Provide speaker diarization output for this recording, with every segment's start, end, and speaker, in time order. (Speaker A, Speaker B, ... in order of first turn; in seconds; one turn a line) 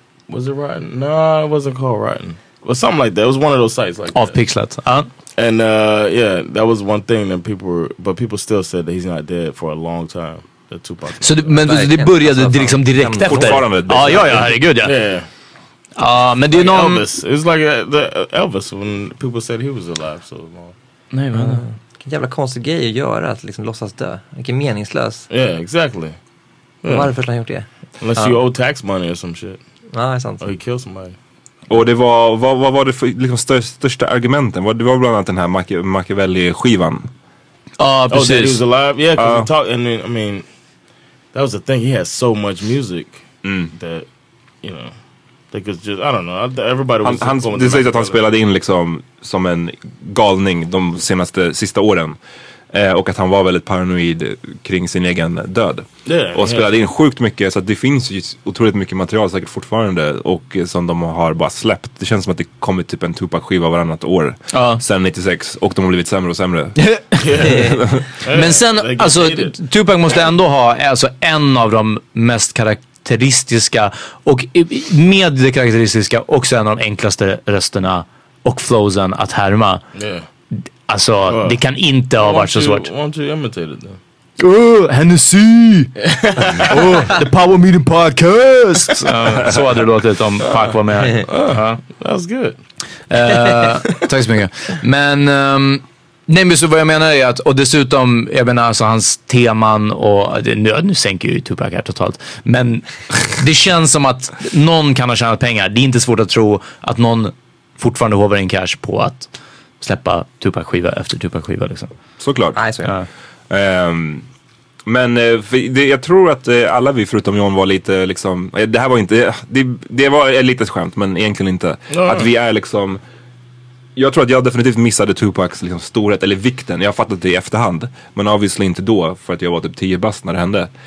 Speaker A: 0.3-4.3
Speaker B: 4.1-5.1
Speaker A: 5.4-11.7
Speaker B: 11.2-15.0
Speaker C: 11.7-13.7
Speaker D: 13.2-14.4
Speaker A: 14.8-15.3
Speaker B: 16.0-17.0
Speaker A: 16.5-20.7
Speaker B: 21.1-21.6
Speaker C: 21.4-25.3
Speaker A: 25.3-26.1
Speaker A: 26.8-27.1
Speaker C: 26.9-28.4
Speaker A: 28.0-29.6
Speaker C: 29.9-30.5
Speaker A: 30.4-31.1
Speaker D: 31.7-37.1
Speaker B: 37.8-38.6
Speaker A: 38.1-40.4
Speaker D: 39.1-39.5
Speaker A: 41.3-44.1
Speaker D: 43.4-43.7
Speaker A: 44.6-44.9
Speaker A: 45.5-48.2
Speaker D: 47.0-52.2
Speaker D: 52.7-66.8
Speaker A: 56.0-56.7
Speaker B: 64.5-64.8
Speaker B: 66.8-67.5
Speaker A: 67.2-69.5
Speaker D: 67.6-68.0
Speaker B: 68.3-79.8
Speaker A: 79.9-80.2
Speaker B: 80.5-82.9
Speaker A: 81.3-81.6
Speaker A: 82.1-84.0
Speaker B: 84.4-85.9
Speaker A: 86.0-87.1
Speaker B: 86.5-91.8
Speaker A: 91.2-92.6
Speaker B: 93.1-109.3
Speaker B: 109.8-111.9
Speaker D: 112.2-112.6
Speaker C: 112.5-112.9
Speaker D: 113.5-114.2
Speaker D: 114.8-123.0
Speaker A: 121.9-122.3
Speaker D: 124.0-130.7